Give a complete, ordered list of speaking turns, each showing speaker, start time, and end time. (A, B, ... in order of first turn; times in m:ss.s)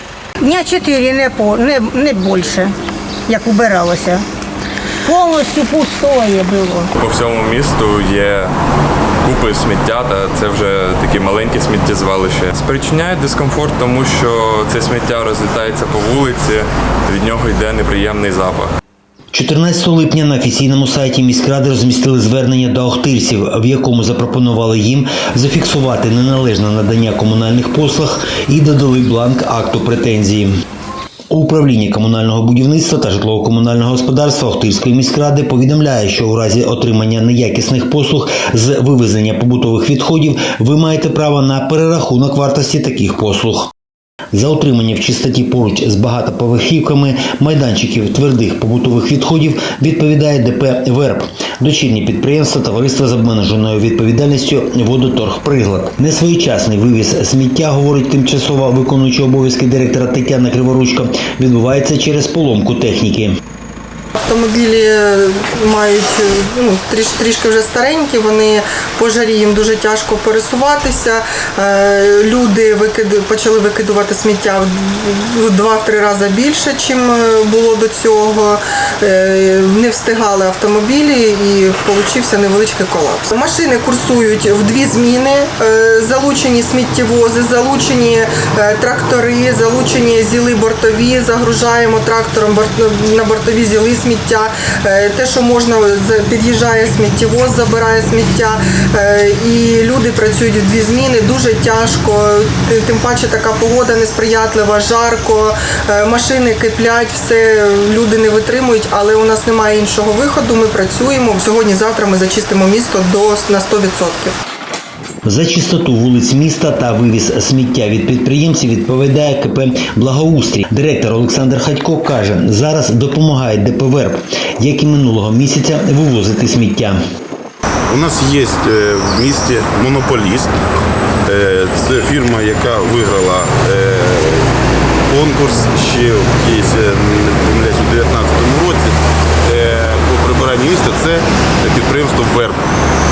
0:00.4-0:02.7 A
0:03.3-0:04.2 A
0:05.1-0:06.9 A
0:07.0-0:08.5 B
0:09.2-0:18.7 B
0:19.3-0:30.6 C
0:31.3-0:43.7 C
0:44.3-1:03.4 C
1:04.2-1:54.3 D
1:55.2-2:07.0 C
2:07.9-2:10.5 E
2:11.3-2:14.5 E
2:15.1-2:22.6 E